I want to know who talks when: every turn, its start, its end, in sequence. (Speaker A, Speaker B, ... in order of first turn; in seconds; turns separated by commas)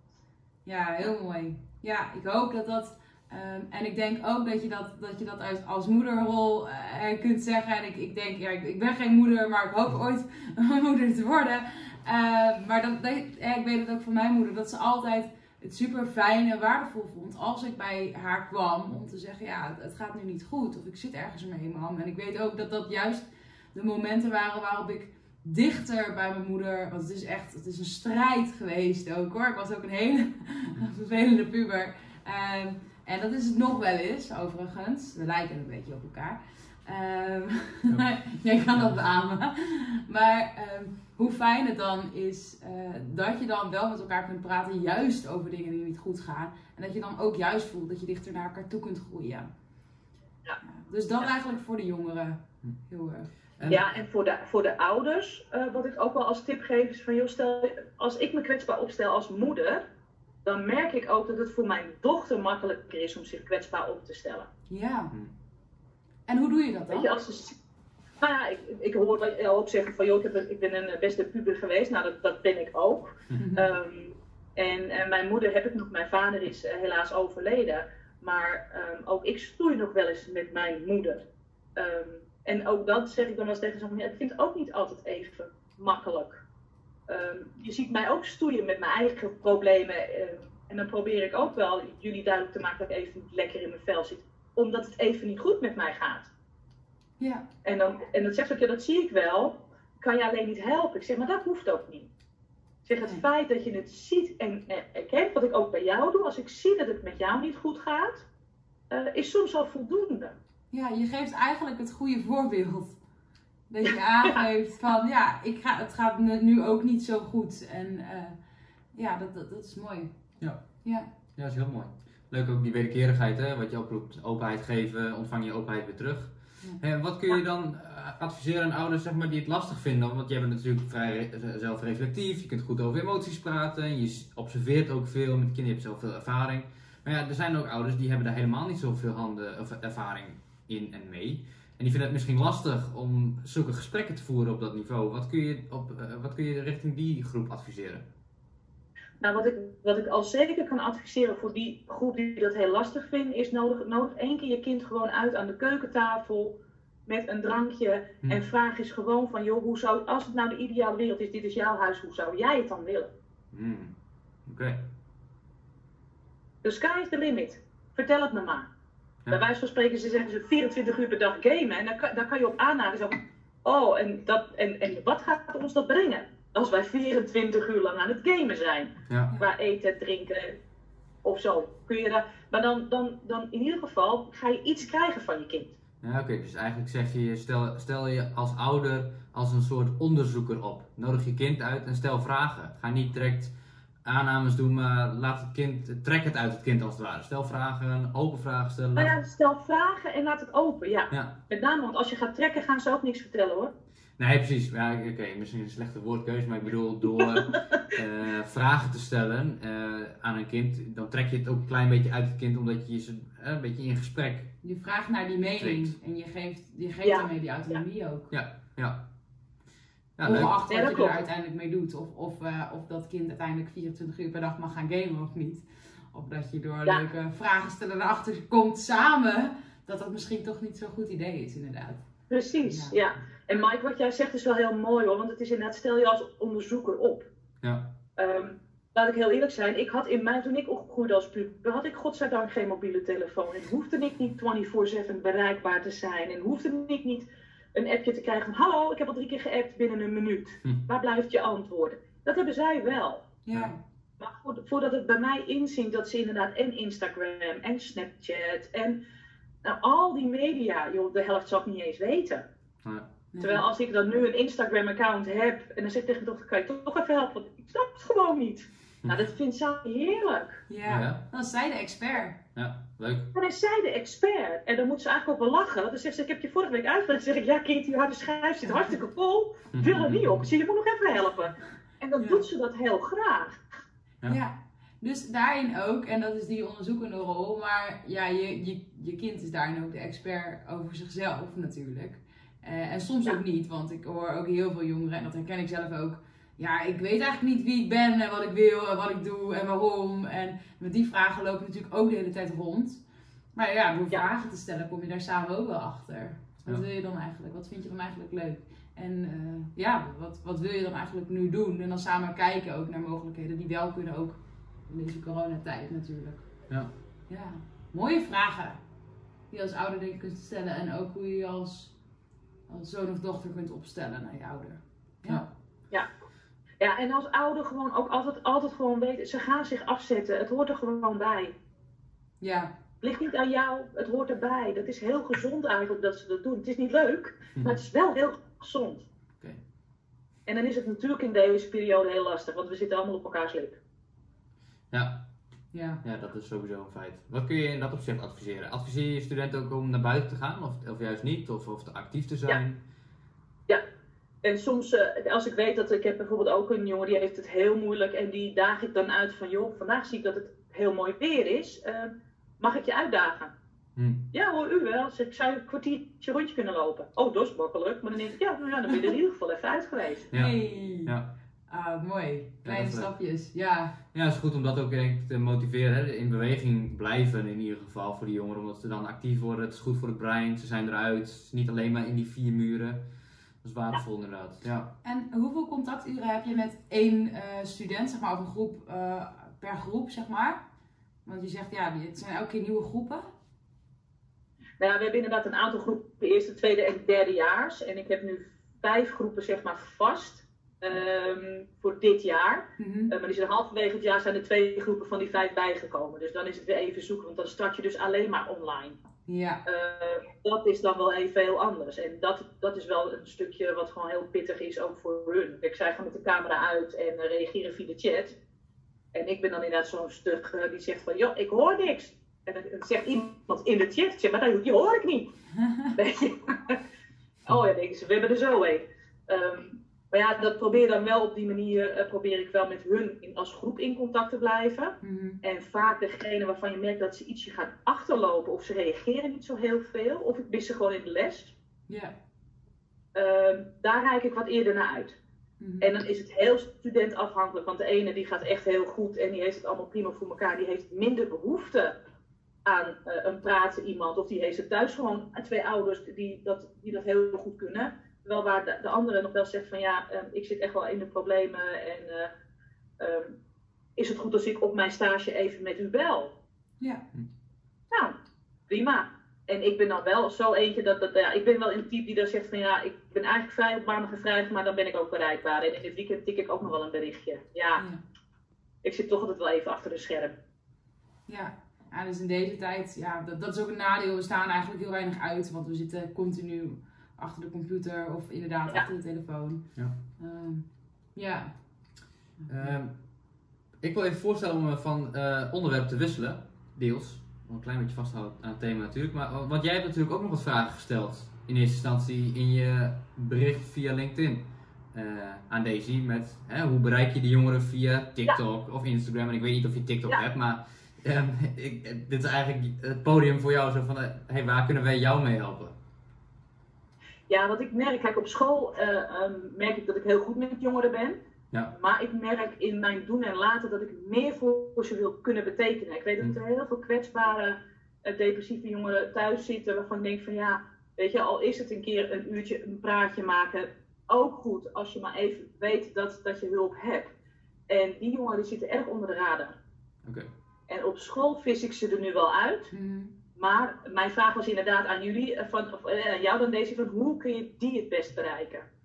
Speaker A: 0.7-49.5, Speaker A: 50.6-53.3, Speaker B: 53.6-53.8, Speaker C: 53.7-59.8, Speaker C: 60.4-64.5, Speaker A: 64.7-65.1, Speaker A: 66.3-67.1, Speaker C: 66.9-67.5, Speaker C: 68.2-81.2, Speaker A: 73.3-73.7, Speaker C: 81.8-86.4, Speaker C: 87.1-96.3, Speaker A: 97.2-97.5, Speaker C: 97.6-102.1, Speaker C: 102.8-108.2, Speaker C: 108.9-110.3, Speaker A: 110.7-113.0, Speaker A: 113.7-118.3, Speaker A: 118.9-120.1, Speaker B: 121.3-148.0, Speaker C: 149.2-163.1, Speaker B: 163.5-163.9, Speaker B: 164.5-164.8, Speaker C: 166.6-168.7, Speaker C: 169.3-180.6, Speaker C: 181.2-185.7, Speaker B: 186.0-193.5, Speaker B: 194.0-199.1, Speaker C: 198.9-203.7, Speaker B: 204.2-214.5, Speaker C: 207.2-207.6, Speaker A: 214.6-218.3, Speaker B: 215.6-215.9, Speaker C: 217.0-217.8, Speaker B: 218.3-219.0, Speaker B: 220.2-220.5, Speaker A: 220.2-232.0, Speaker C: 220.5-221.2, Speaker C: 232.3-237.3, Speaker A: 232.7-232.9, Speaker B: 237.6-237.9, Speaker C: 238.2-253.2, Speaker A: 253.4-253.8, Speaker C: 254.2-259.0, Speaker C: 259.6-262.4, Speaker A: 263.3-263.6, Speaker C: 263.4-270.6, Speaker A: 270.7-272.4, Speaker B: 270.9-271.2, Speaker B: 272.5-273.3, Speaker C: 273.3-283.6, Speaker B: 279.7-280.4, Speaker A: 284.2-303.0, Speaker A: 303.5-316.5, Speaker A: 317.3-318.8, Speaker A: 319.5-321.9, Speaker A: 322.7-325.4, Speaker C: 326.8-331.5, Speaker A: 332.4-332.7, Speaker C: 333.0-339.0, Speaker C: 340.4-343.8, Speaker B: 344.9-345.2, Speaker A: 345.7-346.0, Speaker B: 346.0-352.8, Speaker C: 354.4-363.5, Speaker B: 363.9-364.2, Speaker C: 364.3-370.3, Speaker A: 370.3-371.1, Speaker B: 370.3-371.3, Speaker A: 371.7-373.9, Speaker B: 372.6-373.1, Speaker B: 374.1-383.0, Speaker B: 383.6-384.9, Speaker A: 385.0-390.6, Speaker A: 391.2-393.2, Speaker C: 394.8-409.0, Speaker A: 402.8-403.1, Speaker A: 409.3-409.6, Speaker C: 409.6-418.4, Speaker C: 419.1-425.3, Speaker A: 425.6-425.9, Speaker C: 425.9-426.8, Speaker C: 427.4-441.5, Speaker A: 435.0-435.4, Speaker A: 441.9-442.1, Speaker C: 443.1-445.2, Speaker A: 445.6-445.9, Speaker C: 445.8-451.9, Speaker C: 452.6-462.3, Speaker C: 463.0-463.3, Speaker C: 463.9-466.3, Speaker A: 466.8-467.0, Speaker C: 468.7-477.8, Speaker C: 478.8-480.4, Speaker A: 481.3-491.6, Speaker B: 492.5-492.9, Speaker B: 493.8-515.8, Speaker C: 517.3-521.2, Speaker C: 521.7-537.1, Speaker C: 537.7-539.5, Speaker B: 540.0-540.3, Speaker C: 540.7-542.7, Speaker A: 542.7-543.1, Speaker C: 543.4-548.6